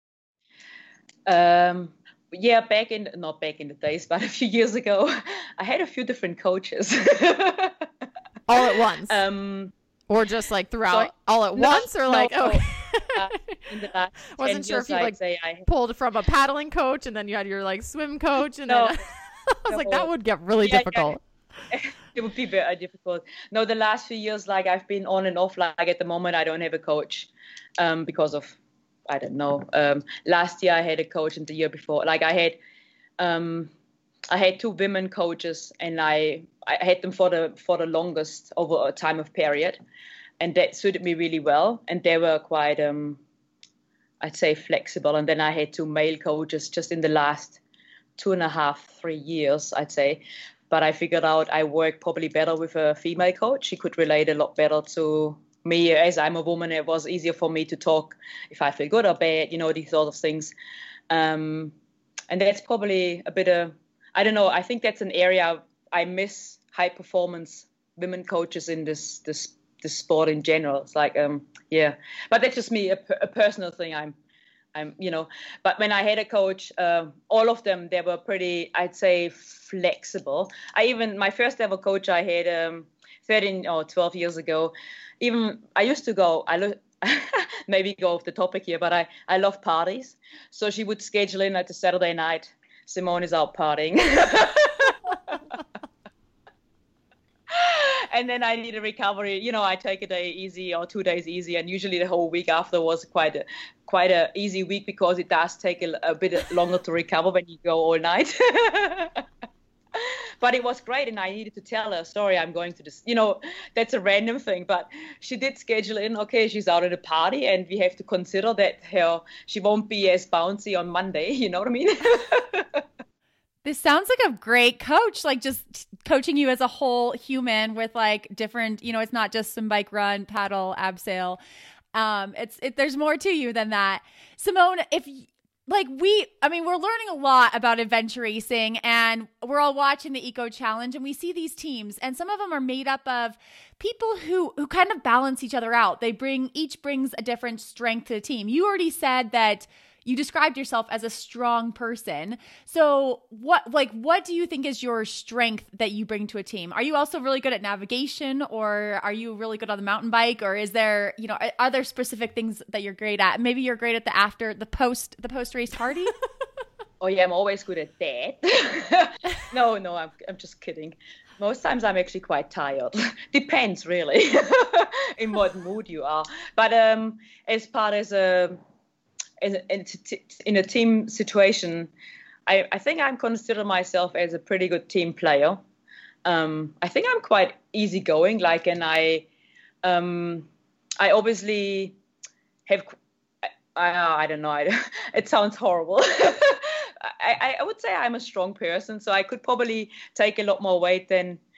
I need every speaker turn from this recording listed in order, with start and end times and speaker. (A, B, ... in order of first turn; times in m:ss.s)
0:01.2-0:07.8 A
0:08.5-0:09.2 B
0:09.1-0:09.7 A
0:10.1-0:13.6 B
0:10.9-0:15.7 A
0:14.4-0:15.2 B
0:15.7-0:21.2 B
0:18.7-0:19.0 A
0:19.7-0:20.1 A
0:20.6-0:21.2 A
0:21.7-0:28.6 A
0:29.1-0:32.6 A
0:33.2-0:33.7 A
0:34.3-0:39.8 A
0:40.4-0:43.2 A
0:44.2-0:47.6 A
0:48.2-1:00.5 A
1:01.1-1:01.7 A
1:02.3-1:14.2 A
1:14.7-1:35.4 A
1:37.5-1:49.2 A
1:49.9-2:02.8 A
2:03.6-2:11.4 C
2:11.9-2:46.1 C
2:47.0-2:58.6 A
2:59.4-3:01.9 A
3:02.5-3:05.6 A
3:06.2-3:09.2 A
3:09.8-3:10.5 A
3:11.0-3:12.0 A
3:13.4-3:21.4 A